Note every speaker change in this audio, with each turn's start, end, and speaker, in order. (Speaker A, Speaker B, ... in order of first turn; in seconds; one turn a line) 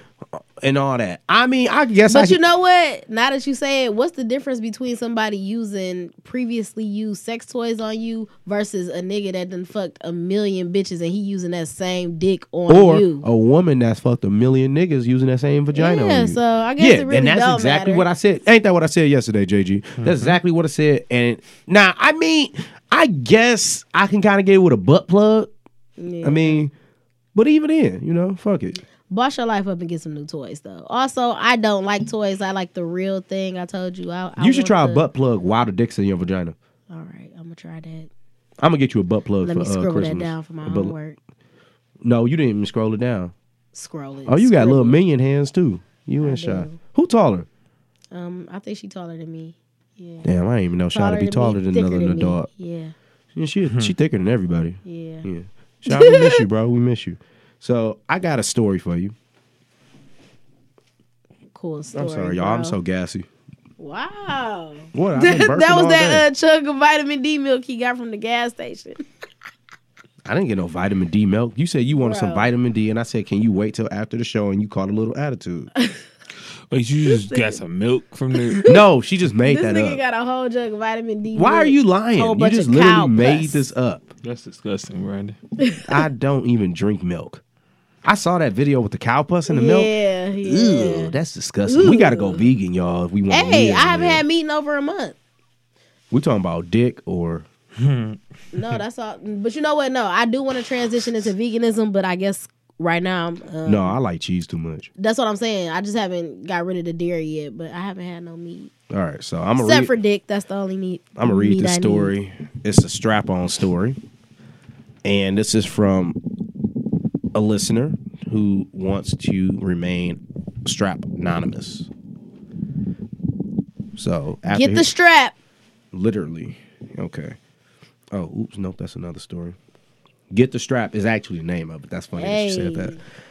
Speaker A: 0.6-2.4
Speaker B: 2.1-13.3
Speaker A: 12.7-25.5
Speaker B: 15.7-18.1
Speaker C: 20.0-20.4
Speaker B: 26.0-26.6
Speaker A: 26.2-26.7
Speaker A: 27.4-28.8
Speaker B: 29.1-35.1
Speaker A: 34.4-36.5
Speaker B: 36.9-38.1
Speaker A: 38.6-40.9
Speaker B: 39.4-41.2
Speaker A: 42.0-43.3
Speaker B: 43.7-45.0
Speaker A: 44.3-47.5
Speaker B: 46.2-46.8
Speaker B: 48.1-50.3
Speaker A: 50.2-52.5
Speaker B: 50.9-53.0
Speaker A: 53.4-59.1
Speaker C: 53.7-53.9
Speaker B: 54.9-55.3
Speaker B: 55.9-56.5
Speaker B: 61.5-62.8
Speaker A: 62.0-63.3
Speaker B: 63.8-69.0
Speaker A: 64.9-66.3
Speaker A: 70.3-75.7
Speaker B: 72.0-72.5
Speaker B: 75.8-76.0
Speaker C: 76.7-78.7
Speaker B: 77.0-77.6
Speaker B: 78.4-78.8
Speaker A: 78.7-80.0
Speaker B: 79.5-83.6
Speaker A: 81.3-84.1
Speaker C: 84.2-85.4
Speaker B: 85.6-86.0
Speaker A: 85.9-87.4
Speaker A: 88.0-89.9
Speaker B: 89.5-91.2
Speaker A: 90.4-94.2
Speaker B: 91.7-92.5
Speaker B: 93.3-95.2
Speaker A: 96.1-97.5
Speaker C: 97.8-98.2
Speaker B: 98.5-104.0
Speaker A: 103.7-104.9
Speaker B: 105.0-108.7
Speaker A: 108.9-109.9
Speaker B: 109.6-112.1
Speaker A: 111.2-114.0
Speaker A: 115.0-116.2
Speaker A: 117.3-121.9
Speaker A: 124.0-124.9
Speaker B: 124.5-125.3
Speaker A: 125.9-127.4
Speaker A: 128.1-129.6
Speaker A: 130.3-133.0
Speaker B: 132.2-133.0